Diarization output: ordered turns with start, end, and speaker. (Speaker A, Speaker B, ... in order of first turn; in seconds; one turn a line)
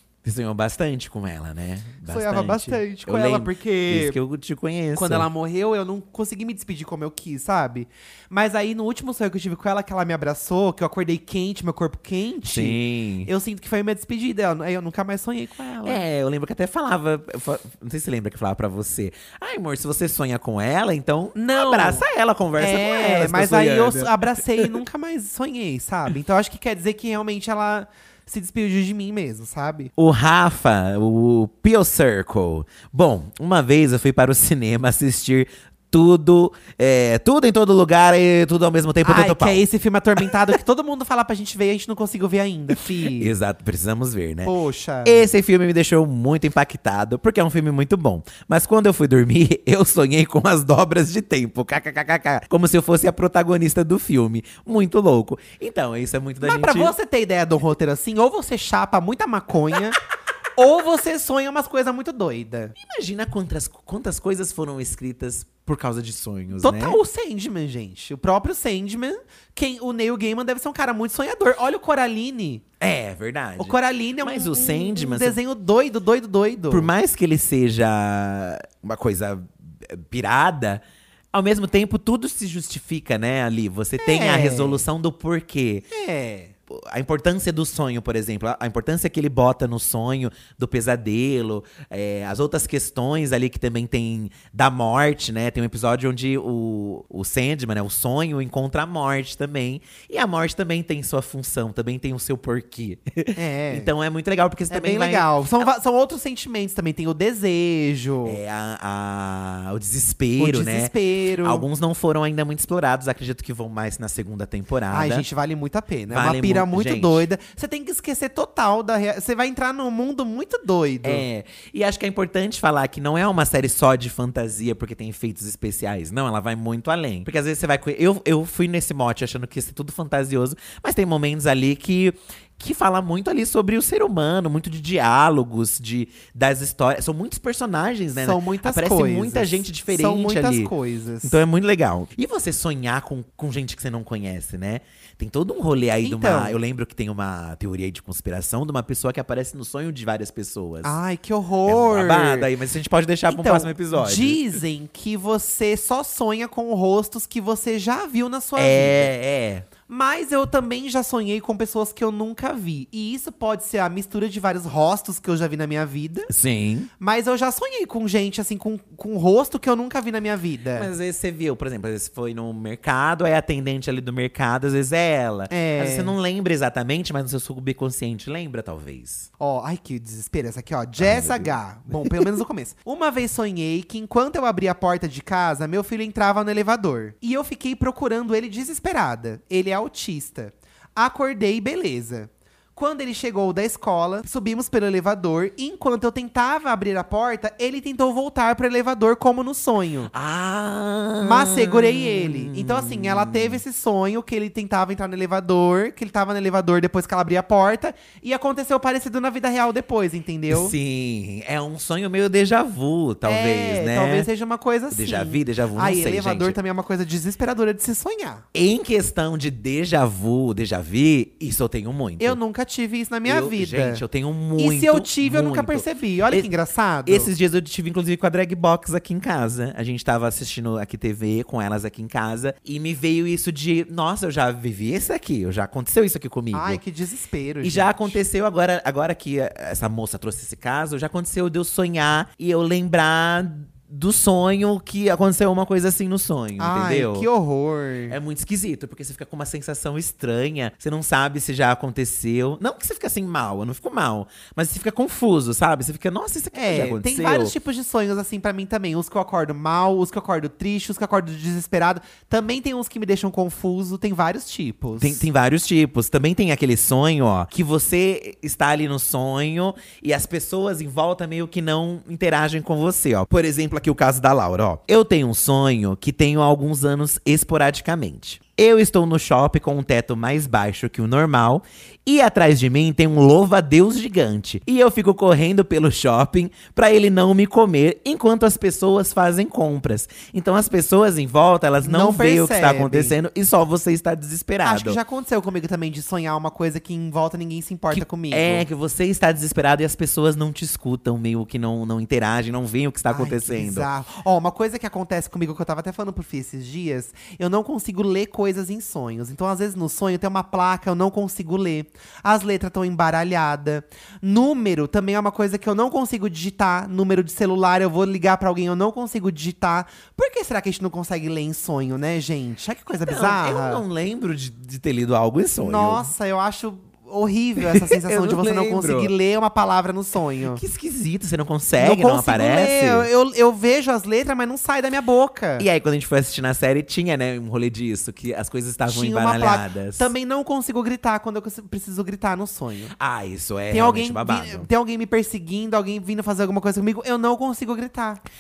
Speaker A: 0.2-5.3
Speaker B: 2.1-4.2
Speaker B: 5.0-16.0
Speaker A: 12.4-13.3
Speaker A: 15.8-24.8
Speaker B: 21.4-22.1
Speaker B: 22.6-29.9
Speaker A: 30.0-39.6
Speaker B: 39.0-43.3
Speaker A: 43.2-44.5
Speaker B: 44.4-45.3
Speaker A: 45.0-56.9
Speaker B: 56.4-60.0
Speaker B: 60.6-62.8
Speaker A: 62.8-67.0
Speaker B: 66.6-72.6
Speaker A: 72.8-75.4
Speaker B: 73.6-76.9
Speaker A: 76.7-80.8
Speaker A: 81.3-85.9
Speaker B: 84.0-84.8
Speaker B: 85.9-86.5
Speaker A: 86.7-105.7
Speaker B: 103.4-103.9
Speaker B: 104.7-108.4
Speaker A: 108.2-115.3
Speaker B: 110.4-111.7
Speaker B: 114.9-121.2
Speaker A: 116.1-117.3
Speaker A: 121.0-140.7
Speaker B: 138.2-141.4
Speaker A: 141.2-151.0
Speaker B: 146.0-146.6
Speaker B: 150.8-152.5
Speaker A: 151.7-154.4
Speaker B: 153.3-159.1
Speaker A: 158.6-159.7
Speaker B: 159.9-166.3
Speaker A: 166.3-166.9
Speaker B: 167.0-170.9
Speaker A: 170.8-179.3
Speaker B: 175.5-176.1
Speaker B: 179.4-200.1
Speaker A: 181.0-182.3
Speaker A: 200.1-203.6
Speaker B: 201.2-210.8
Speaker A: 210.5-214.3
Speaker B: 213.2-218.4
Speaker A: 214.9-216.6
Speaker A: 218.5-222.4
Speaker B: 222.2-224.0
Speaker A: 223.2-226.5
Speaker B: 224.6-227.3
Speaker A: 227.1-236.8
Speaker B: 236.5-238.2
Speaker A: 237.6-247.3
Speaker B: 246.6-248.2
Speaker A: 248.1-257.5
Speaker B: 256.5-265.2
Speaker A: 265.0-295.0
Speaker B: 291.8-293.1
Speaker B: 294.6-298.7
Speaker A: 297.9-303.9
Speaker B: 303.1-323.8
Speaker A: 323.1-326.1
Speaker B: 325.6-330.6
Speaker A: 327.6-329.1
Speaker A: 330.5-333.1
Speaker B: 331.8-335.7
Speaker A: 335.6-340.1
Speaker B: 338.9-342.9
Speaker A: 342.9-344.7
Speaker B: 343.7-348.2